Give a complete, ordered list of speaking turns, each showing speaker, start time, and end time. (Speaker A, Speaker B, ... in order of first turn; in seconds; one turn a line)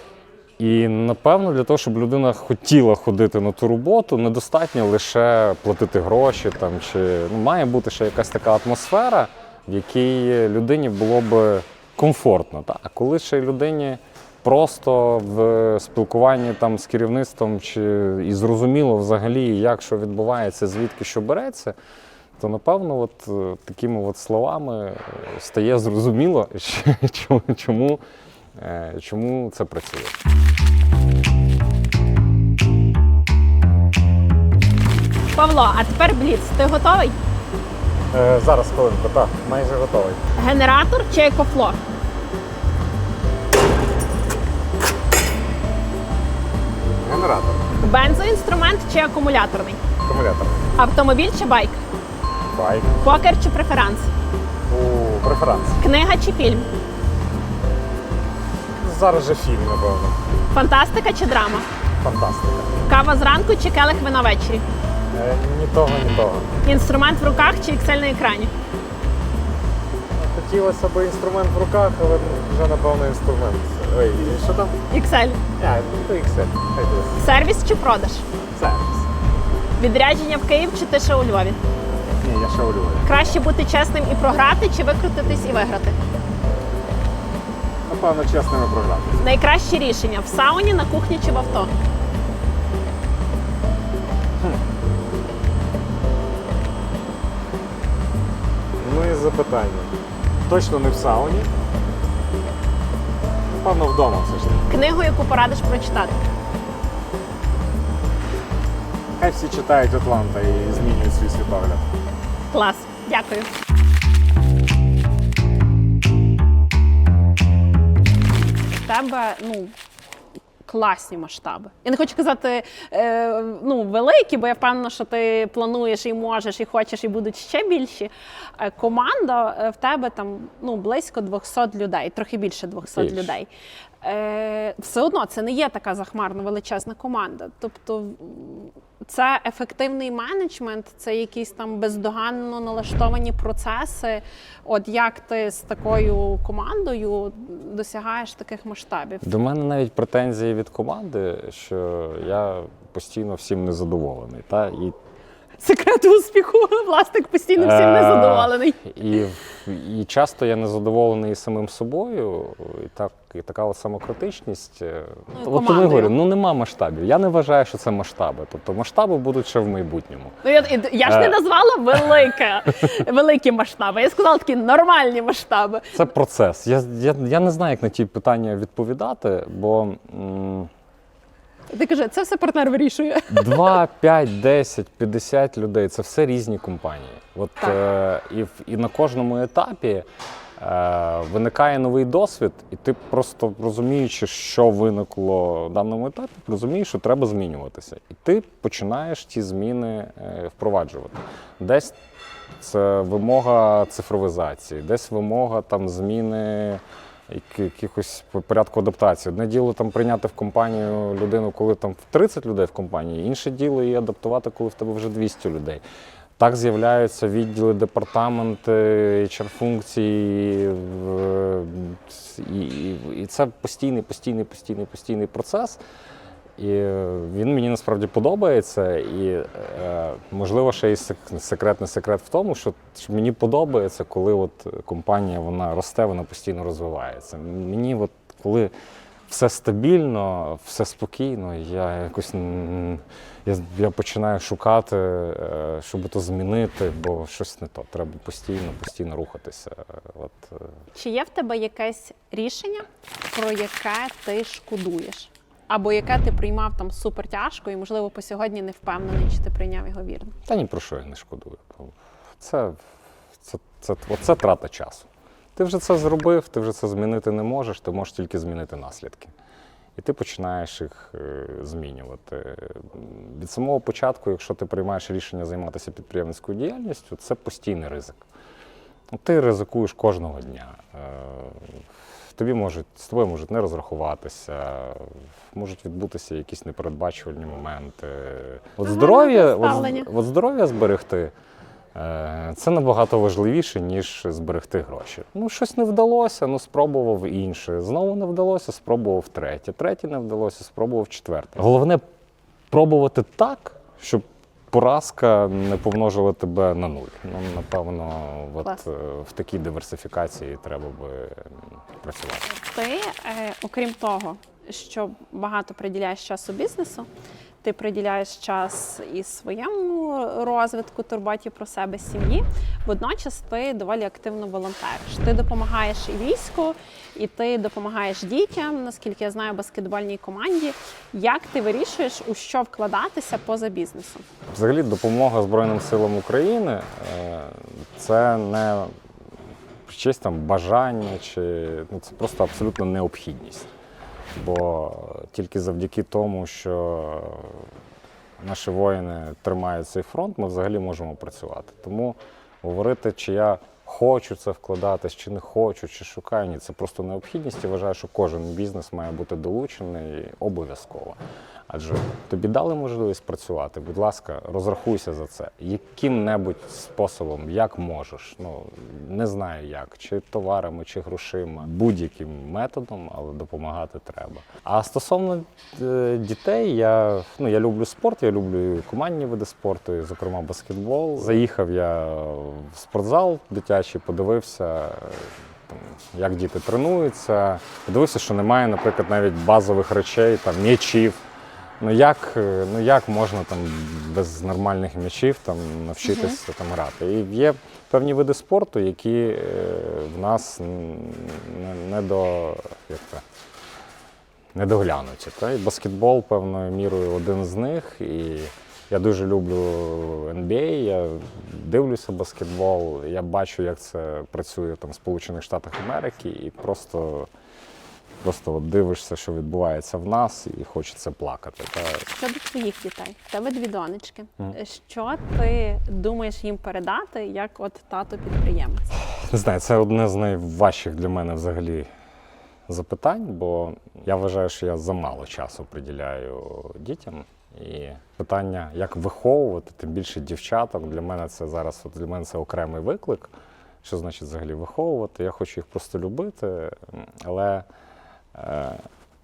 Speaker A: 0.6-21.7
Speaker A: 22.4-28.0
Speaker A: 28.5-30.1
Speaker B: 35.3-37.2
Speaker A: 38.1-40.2
Speaker B: 40.4-41.8
Speaker A: 47.0-47.8
Speaker B: 47.8-49.8
Speaker A: 50.0-50.7
Speaker B: 50.8-51.8
Speaker A: 52.5-53.0
Speaker B: 53.0-54.1
Speaker A: 54.7-55.8
Speaker B: 55.8-56.7
Speaker A: 58.8-60.2
Speaker B: 60.5-61.7
Speaker A: 62.0-62.8
Speaker B: 62.8-64.7
Speaker A: 65.1-66.5
Speaker B: 66.6-68.5
Speaker A: 70.2-74.8
Speaker B: 74.9-75.4
Speaker A: 75.6-77.2
Speaker B: 77.2-78.3
Speaker A: 78.5-79.1
Speaker B: 79.8-81.6
Speaker A: 82.0-83.3
Speaker B: 83.0-86.0
Speaker A: 87.8-89.2
Speaker B: 89.2-91.7
Speaker A: 98.8-99.9
Speaker A: 100.5-101.5
Speaker A: 103.5-104.7
Speaker B: 104.7-106.2
Speaker A: 109.2-111.9
Speaker B: 112.5-113.5
Speaker B: 118.7-119.7
Speaker B: 120.6-133.5
Speaker A: 132.9-133.3
Speaker B: 134.0-149.2
Speaker A: 149.2-154.9
Speaker B: 155.6-158.8
Speaker A: 157.6-170.4
Speaker B: 165.3-166.1
Speaker B: 170.4-176.0
Speaker A: 171.0-171.4
Speaker A: 175.9-180.7
Speaker B: 181.7-183.8
Speaker A: 183.3-190.1
Speaker A: 190.6-201.9
Speaker A: 202.6-215.8
Speaker A: 216.4-225.8
Speaker A: 226.6-238.7
Speaker A: 239.3-250.7
Speaker B: 250.9-260.4
Speaker A: 260.5-262.8
Speaker A: 263.4-269.3
Speaker A: 270.0-278.2
Speaker A: 279.1-281.8
Speaker A: 282.3-291.3
Speaker B: 288.8-290.1
Speaker A: 291.9-302.0
Speaker A: 302.7-312.5
Speaker B: 312.5-317.1
Speaker B: 317.6-334.2
Speaker A: 334.5-338.9
Speaker A: 339.9-343.7
Speaker A: 344.3-347.7
Speaker A: 348.4-391.2
Speaker A: 391.8-403.2
Speaker B: 396.0-396.4
Speaker A: 404.5-417.3
Speaker A: 418.2-422.1
Speaker B: 422.1-428.9
Speaker A: 429.0-431.9
Speaker A: 432.7-443.3
Speaker A: 443.8-447.6
Speaker A: 448.3-448.8